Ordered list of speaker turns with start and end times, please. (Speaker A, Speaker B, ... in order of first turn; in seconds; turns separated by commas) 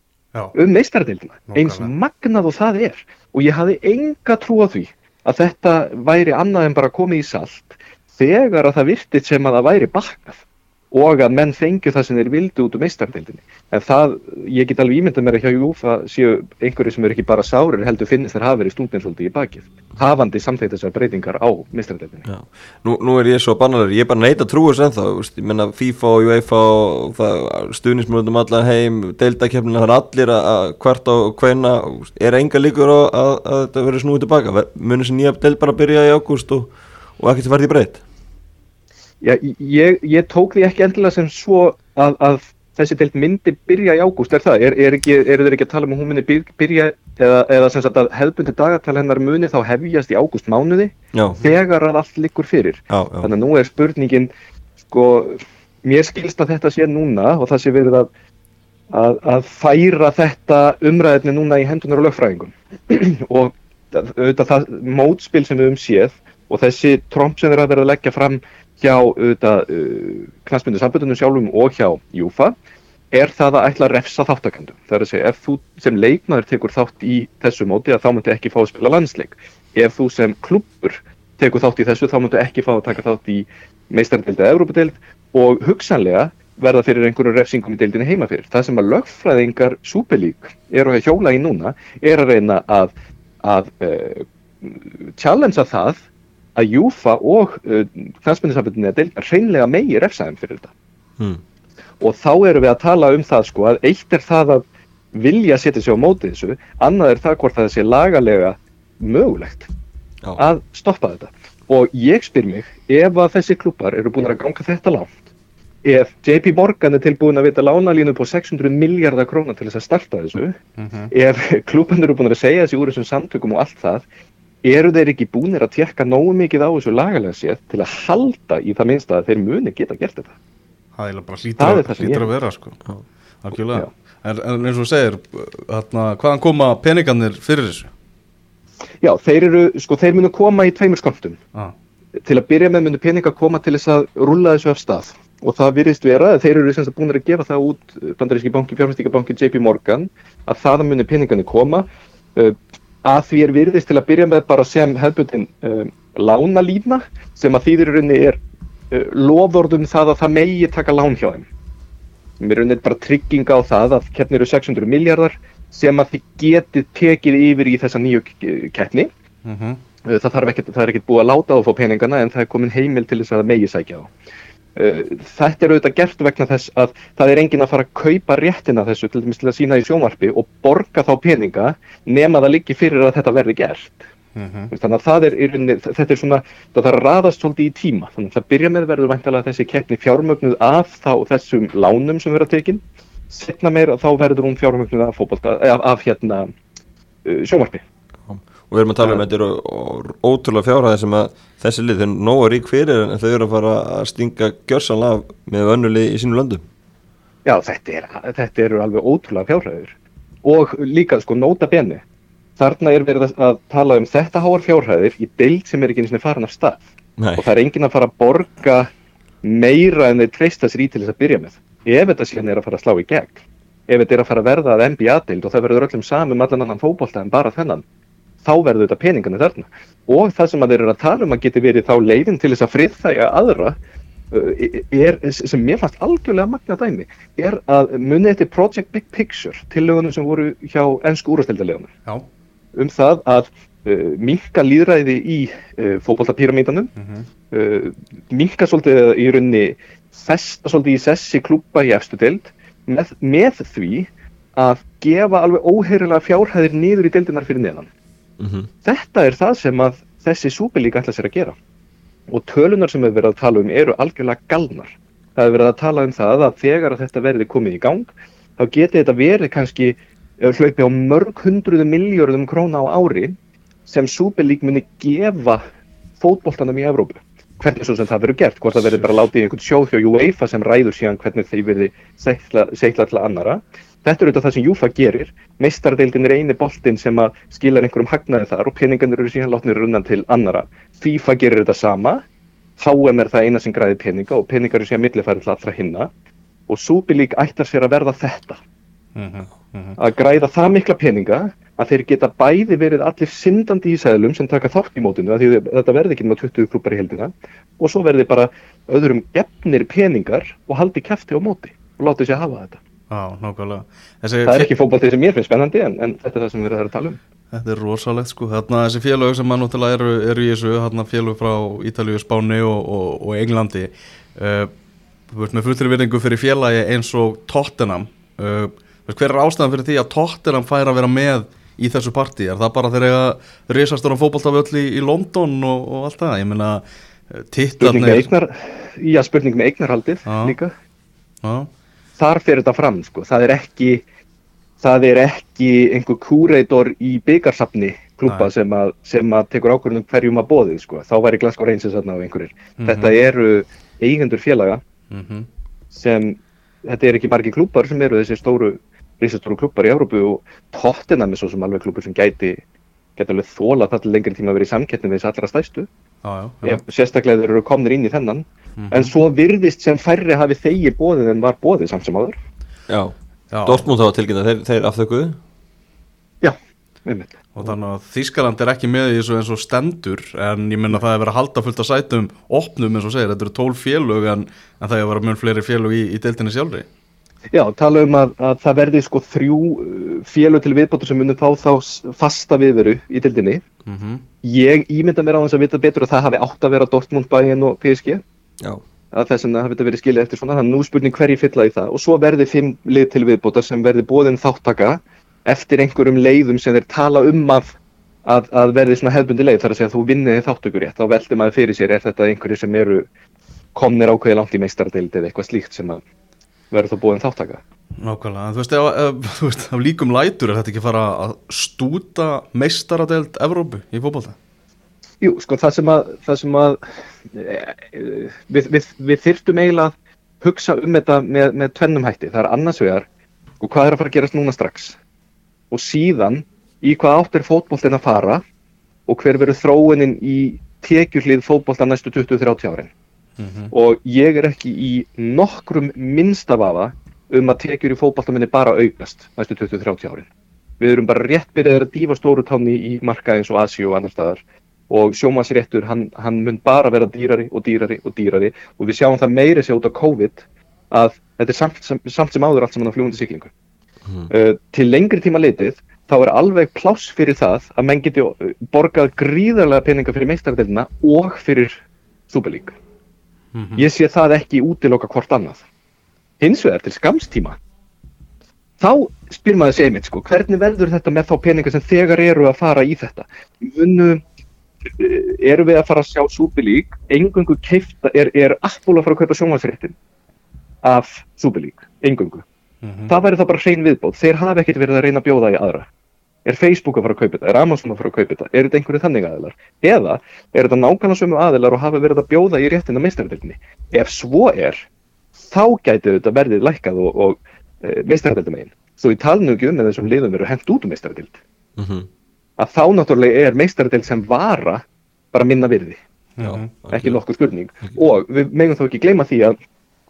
Speaker A: 0.6-22.3, Speaker B: 1.5-1.9, Speaker C: 22.3-38.0, Speaker A: 39.2-54.3, Speaker C: 51.1-51.4, Speaker C: 52.9-53.3, Speaker A: 54.9-58.1, Speaker A: 58.9-72.5, Speaker A: 73.1-96.0, Speaker A: 96.5-100.7, Speaker A: 102.0-109.7, Speaker A: 110.4-115.2, Speaker A: 115.8-120.6, Speaker B: 120.8-121.1, Speaker A: 121.1-124.0, Speaker A: 124.6-130.3, Speaker B: 131.0-132.8, Speaker A: 131.6-132.3, Speaker B: 133.4-137.9, Speaker A: 139.0-141.4, Speaker A: 142.2-158.4, Speaker A: 158.9-161.5, Speaker A: 162.4-169.1, Speaker B: 169.4-169.8, Speaker A: 170.0-174.1, Speaker A: 174.8-184.0, Speaker B: 184.3-184.7, Speaker A: 184.7-196.5, Speaker A: 197.2-197.8, Speaker C: 198.3-206.6, Speaker A: 207.4-209.9, Speaker A: 210.4-212.0, Speaker A: 212.6-218.9, Speaker C: 217.2-217.5, Speaker A: 219.4-227.8, Speaker A: 228.4-233.8, Speaker A: 234.3-241.9, Speaker A: 242.8-246.9, Speaker B: 247.0-247.3, Speaker A: 247.5-257.9, Speaker C: 258.4-258.7, Speaker A: 258.9-261.6, Speaker A: 262.3-275.6, Speaker A: 276.2-292.2, Speaker A: 292.8-296.1, Speaker A: 296.7-298.6, Speaker B: 299.1-300.0, Speaker A: 300.0-312.8, Speaker B: 313.1-314.7, Speaker A: 314.5-317.2, Speaker B: 317.5-324.7, Speaker B: 325.3-338.3, Speaker A: 337.8-340.7, Speaker B: 340.3-340.6, Speaker B: 341.4-341.7, Speaker A: 342.2-344.0, Speaker A: 344.8-354.8, Speaker B: 352.8-353.2, Speaker B: 355.1-355.5, Speaker A: 355.9-362.6, Speaker A: 363.2-365.9, Speaker B: 366.2-366.8, Speaker A: 366.6-372.4, Speaker B: 368.8-369.1, Speaker C: 372.9-375.4, Speaker B: 373.5-373.9, Speaker A: 376.4-377.4, Speaker B: 377.5-386.9, Speaker A: 387.5-393.6, Speaker B: 393.9-394.2, Speaker A: 394.4-398.2, Speaker A: 399.1-413.0, Speaker A: 413.8-416.0, Speaker A: 416.7-417.6, Speaker B: 418.0-424.4, Speaker A: 425.2-426.8, Speaker A: 427.3-433.1, Speaker A: 433.6-435.0, Speaker A: 435.7-438.4, Speaker A: 439.1-442.9, Speaker B: 443.4-443.7, Speaker A: 443.7-450.3, Speaker A: 450.8-463.5, Speaker A: 464.3-471.8, Speaker A: 472.3-472.8, Speaker B: 473.5-473.9, Speaker A: 473.8-475.6, Speaker A: 476.4-477.6, Speaker A: 478.8-484.2, Speaker A: 484.9-489.9, Speaker A: 490.8-492.4, Speaker B: 492.8-493.1, Speaker A: 493.1-495.9, Speaker A: 496.4-504.9, Speaker A: 505.4-511.4, Speaker C: 511.8-512.1, Speaker A: 512.6-516.0, Speaker B: 516.4-516.7, Speaker C: 516.4-517.2, Speaker A: 516.9-519.5